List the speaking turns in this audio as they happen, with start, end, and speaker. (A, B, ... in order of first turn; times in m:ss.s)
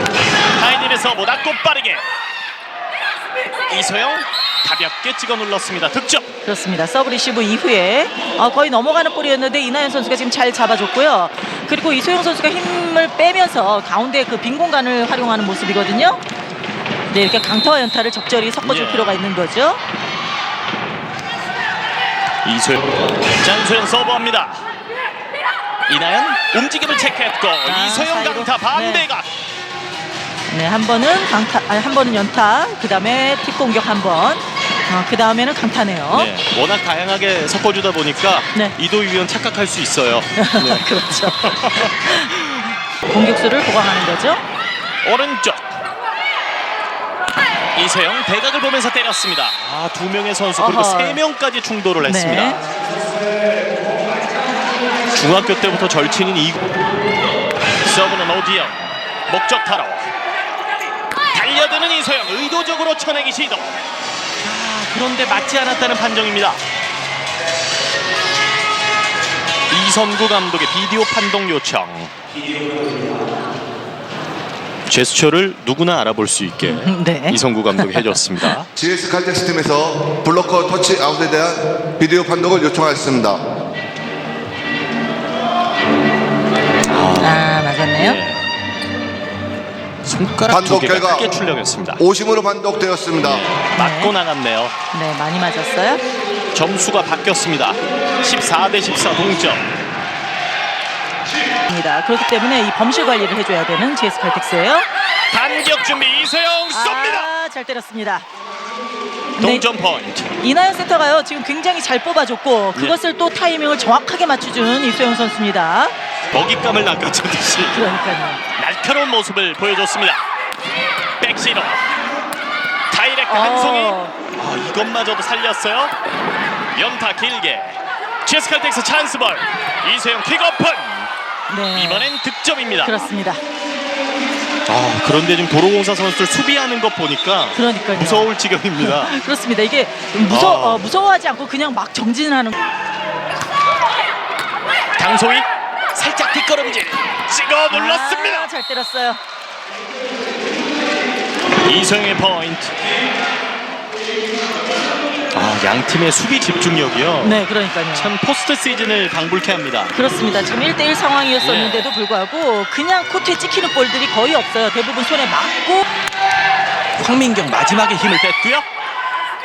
0:00.6-0:02.0 A
0:03.7-0:06.3 A
0:06.4-0:16.2 B
0:17.1-0:19.8 B
0:18.6-0:19.2 A
0:22.4-0:24.6 A
0:25.9-0:29.3 A
0:27.6-0:29.1 B
0:30.5-0:36.3 B
0:36.1-0:42.0 A
0:40.4-0:44.4 B
0:45.0-0:45.7 A
0:47.8-0:52.6 A
0:50.6-0:51.2 B
0:52.0-0:52.6 B
0:55.2-0:56.6 A
0:57.8-1:00.1 A
1:01.3-1:03.8 A
1:04.4-1:06.6 A
1:09.7-1:12.1 A
1:14.9-1:18.7 A
1:16.6-1:18.5 B
1:18.8-1:23.4 C
1:26.9-1:28.4 A
1:27.2-1:28.2 B
1:30.0-1:32.0 A
1:30.5-1:31.3 C
1:32.0-1:33.5 C
1:33.2-1:34.8 A
1:33.8-1:34.2 B
1:34.9-1:36.0 B
1:36.5-1:39.7 A
1:41.7-1:44.9 B
1:45.3-1:47.3 A
1:46.7-1:48.3 B
1:49.4-1:50.4 A
1:49.4-1:49.7 B
1:50.4-1:55.9 B
1:56.3-1:57.8 A
1:57.7-1:58.4 B
1:58.6-2:00.3 A
2:01.2-2:01.9 A
2:02.9-2:05.9 A
2:03.3-2:04.1 B
2:06.8-2:11.1 A
2:11.5-2:12.1 B
2:11.7-2:12.9 A
2:12.8-2:13.4 B
2:14.7-2:19.2 A
2:17.5-2:22.6 B
2:20.3-2:20.8 A
2:25.0-2:28.5 A
2:27.7-2:29.2 B
2:31.6-2:32.8 A
2:35.3-2:40.0 A
2:37.2-2:38.1 B
2:39.9-2:45.9 B
2:41.4-2:41.9 A
2:47.0-2:48.7 A